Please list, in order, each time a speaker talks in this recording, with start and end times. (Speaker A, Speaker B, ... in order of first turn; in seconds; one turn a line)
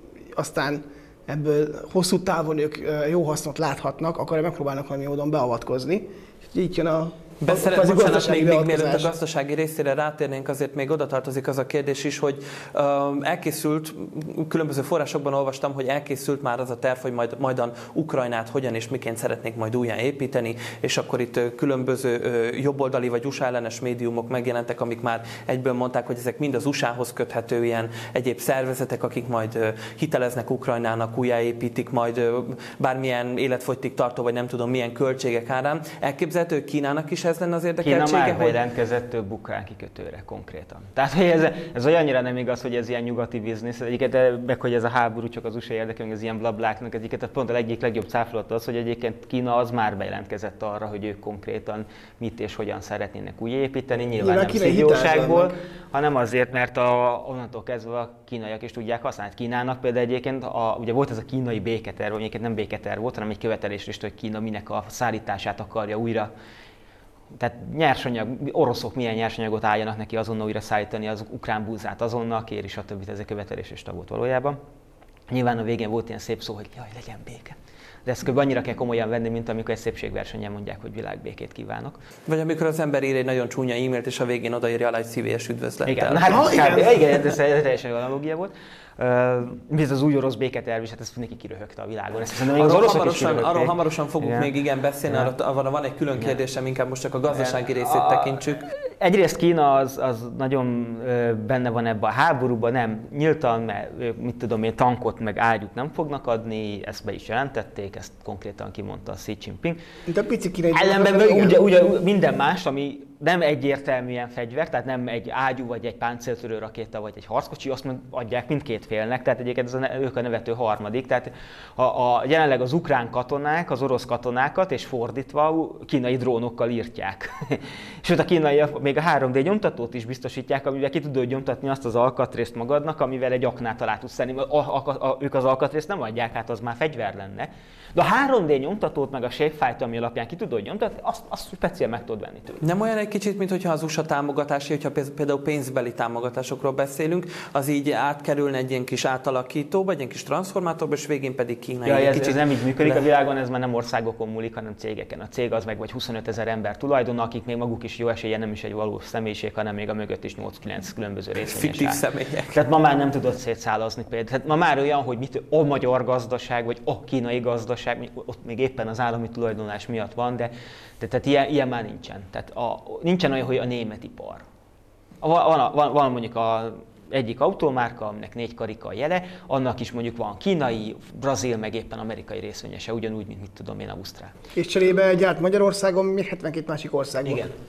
Speaker A: 0.3-9.1
Speaker B: 7.4-38.6
Speaker C: 37.8-66.3
Speaker A: 54.2-55.5
Speaker C: 67.3-74.6
Speaker C: 75.3-82.0
Speaker B: 82.3-86.7
Speaker C: 85.8-94.5
Speaker A: 86.3-87.0
Speaker B: 92.5-98.6
Speaker C: 95.1-95.3
Speaker C: 97.3-109.8
Speaker A: 110.1-111.7
Speaker C: 110.7-142.6
Speaker B: 142.6-153.0
Speaker C: 151.8-174.4
Speaker B: 161.4-162.6
Speaker C: 175.2-184.3
Speaker A: 184.5-187.4
Speaker C: 187.2-187.5